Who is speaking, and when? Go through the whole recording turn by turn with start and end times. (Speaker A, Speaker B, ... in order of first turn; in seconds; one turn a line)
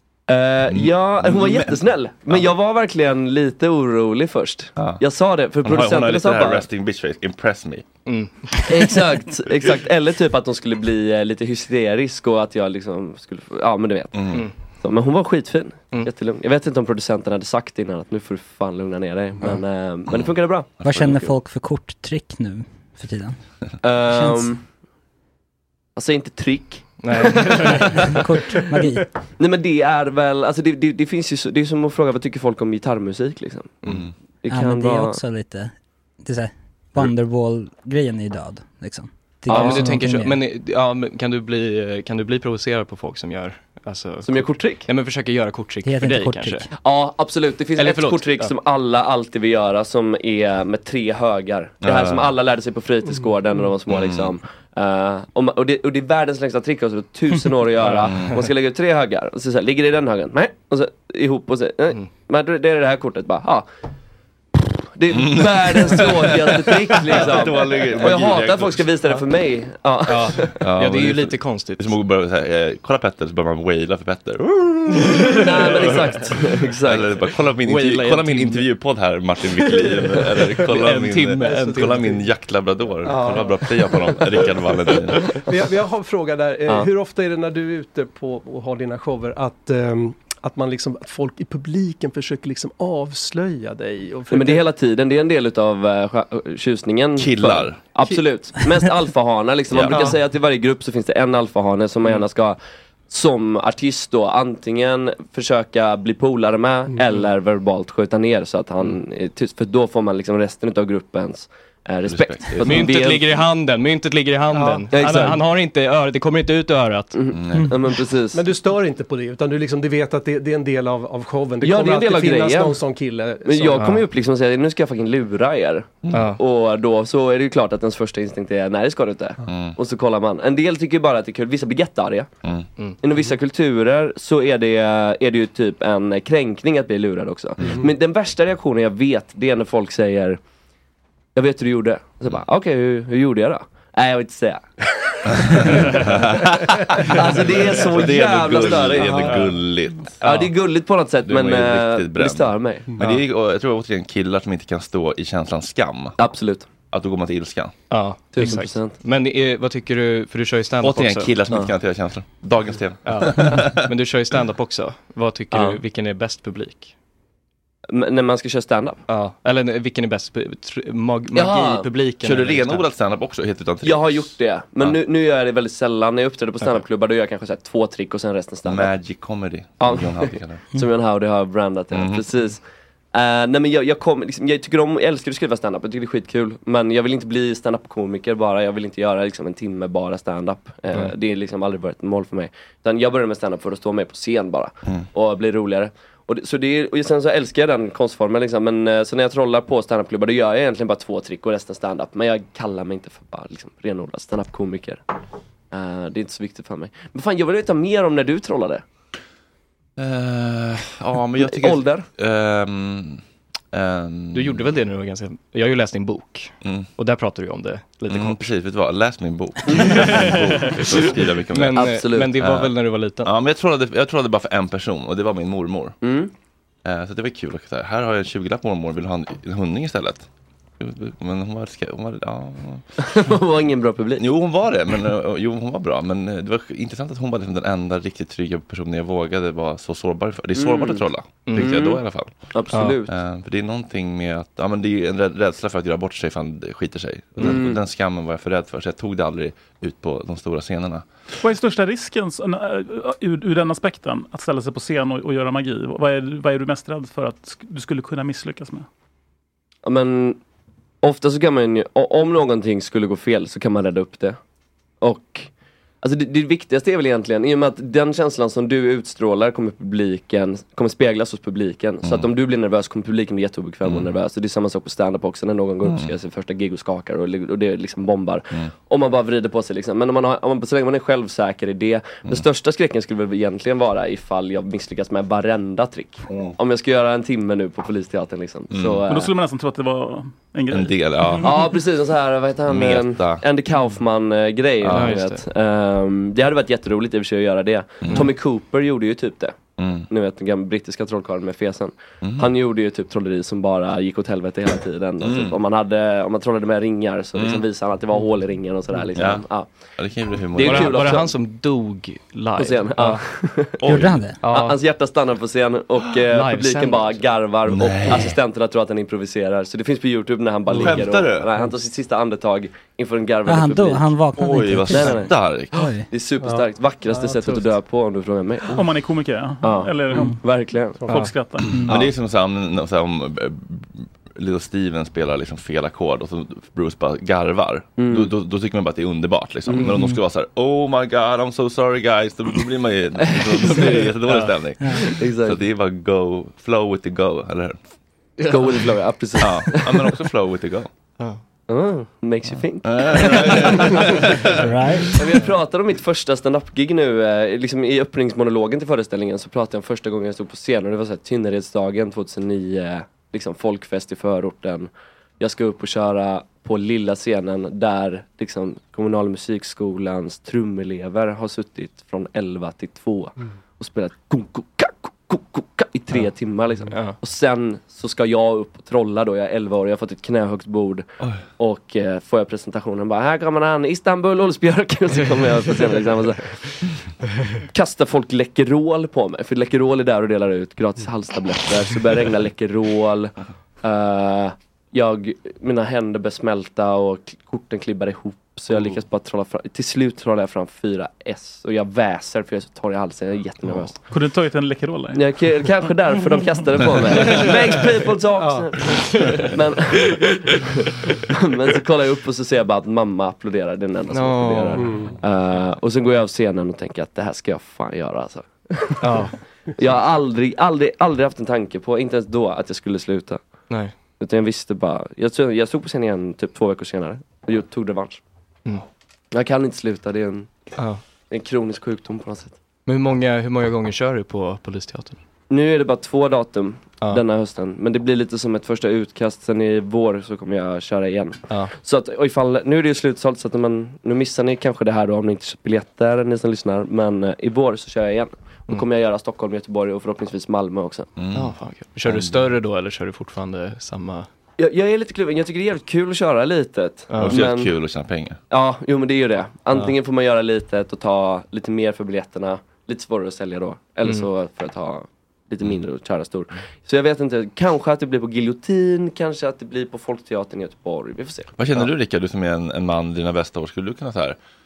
Speaker A: 0.3-6.7
Speaker B: 0.7-2.5
Speaker B: 4.8-5.0
Speaker B: 5.6-7.9
Speaker C: 8.1-9.0
Speaker A: 8.7-20.7
Speaker B: 14.1-14.5
Speaker C: 14.3-14.6
Speaker B: 20.1-21.2
Speaker D: 20.9-24.5
Speaker A: 23.8-24.6
Speaker A: 26.0-28.0
Speaker C: 27.0-28.1
Speaker D: 28.1-29.1
Speaker C: 28.8-29.0
Speaker A: 29.4-35.2
Speaker C: 33.8-34.1
Speaker B: 33.8-34.2
Speaker D: 34.5-40.4
Speaker A: 39.5-40.0
Speaker C: 39.5-46.7
Speaker A: 44.2-44.9
Speaker D: 45.8-46.7
Speaker A: 46.7-63.7
Speaker C: 47.8-48.5
Speaker B: 51.8-52.3
Speaker B: 53.9-54.4
Speaker C: 57.8-58.5
Speaker B: 58.0-58.4
Speaker A: 64.9-70.6
Speaker B: 65.1-69.0
Speaker C: 70.1-72.0
Speaker B: 70.5-76.3
Speaker C: 75.2-76.3
Speaker A: 75.3-77.1
Speaker B: 76.8-85.3
Speaker C: 77.6-78.7
Speaker C: 79.6-82.2
Speaker E: 81.4-82.2
Speaker E: 83.0-84.2
Speaker E: 85.4-94.6
Speaker A: 94.3-113.4
Speaker B: 97.2-98.0
Speaker B: 99.7-100.1
Speaker E: 99.9-100.2
Speaker B: 112.0-113.1
Speaker C: 112.6-117.2
Speaker E: 114.5-114.9
Speaker A: 114.9-115.5
Speaker A: 117.1-118.5
Speaker B: 117.3-117.7
Speaker E: 118.3-123.9
Speaker A: 121.6-122.8
Speaker A: 123.5-132.3
Speaker C: 123.8-124.0
Speaker B: 126.0-126.3
Speaker C: 126.1-126.4
Speaker B: 129.4-129.8
Speaker B: 132.4-132.7
Speaker C: 132.8-133.3
Speaker A: 133.0-140.4
Speaker B: 137.6-137.8
Speaker E: 137.6-137.9
Speaker A: 141.3-144.9
Speaker B: 146.1-146.5
Speaker A: 147.1-149.3
Speaker B: 147.2-150.4
Speaker E: 149.0-149.4
Speaker C: 149.2-149.7
Speaker C: 150.2-150.6
Speaker A: 150.2-152.9
Speaker B: 151.2-156.2
Speaker E: 152.9-153.2
Speaker A: 156.2-156.7
Speaker B: 156.8-157.8
Speaker C: 157.9-161.4
Speaker A: 158.3-159.0
Speaker B: 160.8-163.9
Speaker C: 163.0-167.0
Speaker A: 165.5-165.8
Speaker A: 167.9-169.0
Speaker C: 169.1-172.9
Speaker A: 171.3-172.1
Speaker B: 172.1-175.0
Speaker A: 173.8-178.9
Speaker B: 178.7-180.7
Speaker A: 179.8-182.6
Speaker B: 181.9-182.3
Speaker A: 183.1-205.0
Speaker A: 205.7-208.8
Speaker B: 210.0-214.8
Speaker A: 211.4-212.1
Speaker C: 214.3-218.5
Speaker B: 216.6-216.9
Speaker B: 218.1-222.7
Speaker A: 219.7-220.1
Speaker C: 219.7-223.3
Speaker A: 221.7-222.4
Speaker B: 223.2-226.0
Speaker A: 226.0-226.3
Speaker B: 226.8-232.9
Speaker A: 233.0-234.3
Speaker B: 234.2-251.2
Speaker A: 240.6-243.1
Speaker C: 241.4-241.9
Speaker C: 242.7-243.0
Speaker A: 247.4-247.8
Speaker F: 251.4-258.9
Speaker A: 259.8-260.4
Speaker A: 261.0-264.4
Speaker A: 265.0-265.5
Speaker A: 266.0-289.3
Speaker B: 272.0-272.3
Speaker B: 273.8-274.1
Speaker B: 275.8-276.1
Speaker B: 286.3-286.6
Speaker B: 288.7-289.0
Speaker F: 289.1-291.6
Speaker B: 290.7-291.6
Speaker A: 291.4-309.9
Speaker B: 292.7-293.5
Speaker B: 294.8-295.2
Speaker C: 294.9-295.5
Speaker B: 298.0-298.3
Speaker C: 298.0-298.4
Speaker B: 299.8-300.1
Speaker B: 302.2-302.5
Speaker B: 305.2-305.6
Speaker B: 307.4-307.7
Speaker B: 309.1-311.1
Speaker A: 310.6-311.4
Speaker C: 310.6-313.2
Speaker A: 312.6-313.8
Speaker B: 313.8-314.3
Speaker D: 313.9-314.4
Speaker C: 314.4-314.8
Speaker A: 314.4-324.2
Speaker C: 316.3-317.2
Speaker B: 317.7-318.4
Speaker B: 320.7-321.6
Speaker D: 323.5-326.1
Speaker B: 324.3-325.9
Speaker A: 324.9-325.3
Speaker A: 326.0-328.8
Speaker E: 326.4-327.8
Speaker F: 328.7-330.4
Speaker A: 329.6-331.2
Speaker E: 331.0-331.3
Speaker F: 331.1-331.9
Speaker B: 331.6-347.8
Speaker A: 338.0-338.3
Speaker A: 339.7-340.0
Speaker C: 343.2-345.2
Speaker A: 345.2-345.6
Speaker C: 348.4-348.9
Speaker A: 348.5-350.1
Speaker B: 349.4-350.9
Speaker C: 351.2-351.4
Speaker A: 351.7-354.2
Speaker B: 352.8-354.4
Speaker D: 354.6-355.1
Speaker A: 355.1-381.1
Speaker C: 376.9-377.2
Speaker B: 381.2-381.5
Speaker A: 381.6-386.6
Speaker C: 385.1-386.6
Speaker A: 387.7-404.0
Speaker F: 404.1-405.7
Speaker A: 405.1-408.9
Speaker E: 408.4-408.8
Speaker C: 409.1-409.5
Speaker A: 409.4-410.2
Speaker A: 411.3-419.3
Speaker C: 414.1-415.2
Speaker E: 414.8-415.1
Speaker C: 419.0-419.4
Speaker A: 419.8-423.4
Speaker C: 423.7-424.0
Speaker A: 424.1-428.2
Speaker A: 429.3-430.6
Speaker C: 430.8-431.0
Speaker A: 431.3-432.6
Speaker C: 432.9-435.2
Speaker A: 435.5-451.1
Speaker C: 441.5-441.8
Speaker B: 451.1-452.5
Speaker C: 451.3-454.3
Speaker A: 454.6-457.7
Speaker C: 457.1-457.5
Speaker B: 457.2-458.4
Speaker A: 458.5-471.9
Speaker C: 464.0-464.3
Speaker B: 471.6-474.4